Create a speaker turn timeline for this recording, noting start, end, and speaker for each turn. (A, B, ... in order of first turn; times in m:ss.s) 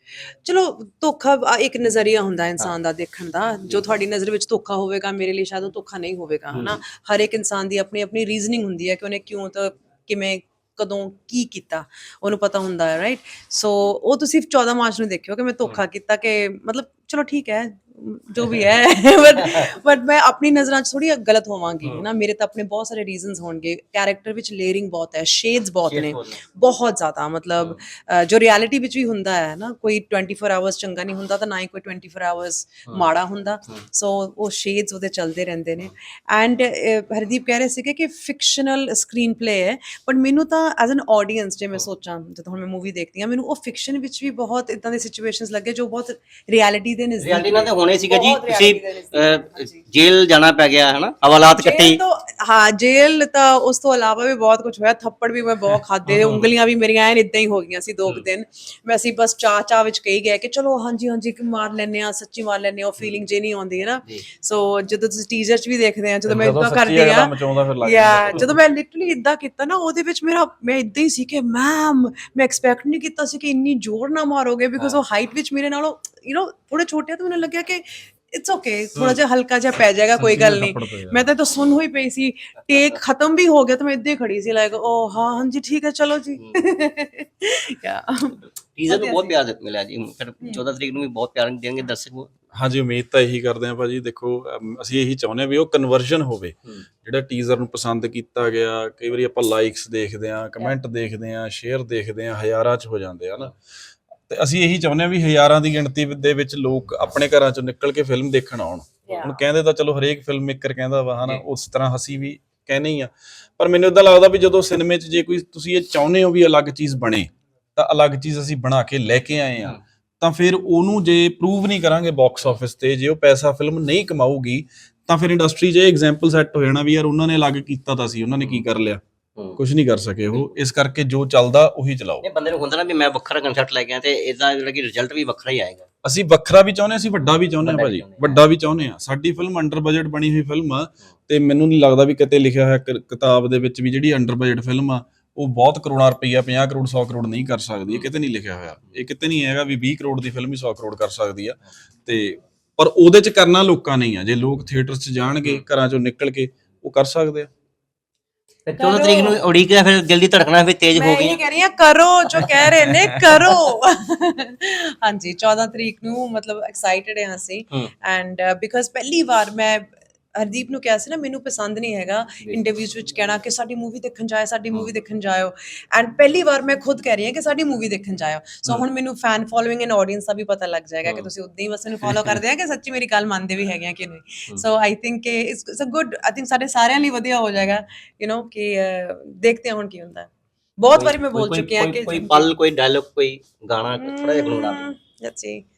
0:00.4-0:49.8 A
0:06.5-0:06.8 B
0:19.4-0:19.7 B
0:25.8-0:26.4 B
0:47.2-0:52.0 B
0:51.6-1:29.4 A
0:56.1-0:56.5 B
1:06.3-1:08.5 C
1:20.2-1:21.3 C
1:28.8-1:32.3 B
1:32.6-1:43.6 C
1:44.3-2:09.0 C
1:49.1-1:49.4 A
2:08.4-2:08.6 B
2:09.6-2:12.2 C
2:12.2-2:15.9 B
2:16.0-2:37.5 C
2:17.6-2:18.4 B
2:38.7-2:41.4 B
2:38.8-2:39.4 A
2:41.0-3:12.5 A
2:42.8-2:43.4 C
3:02.1-3:02.4 B
3:10.9-3:14.8 B
3:14.0-3:15.6 A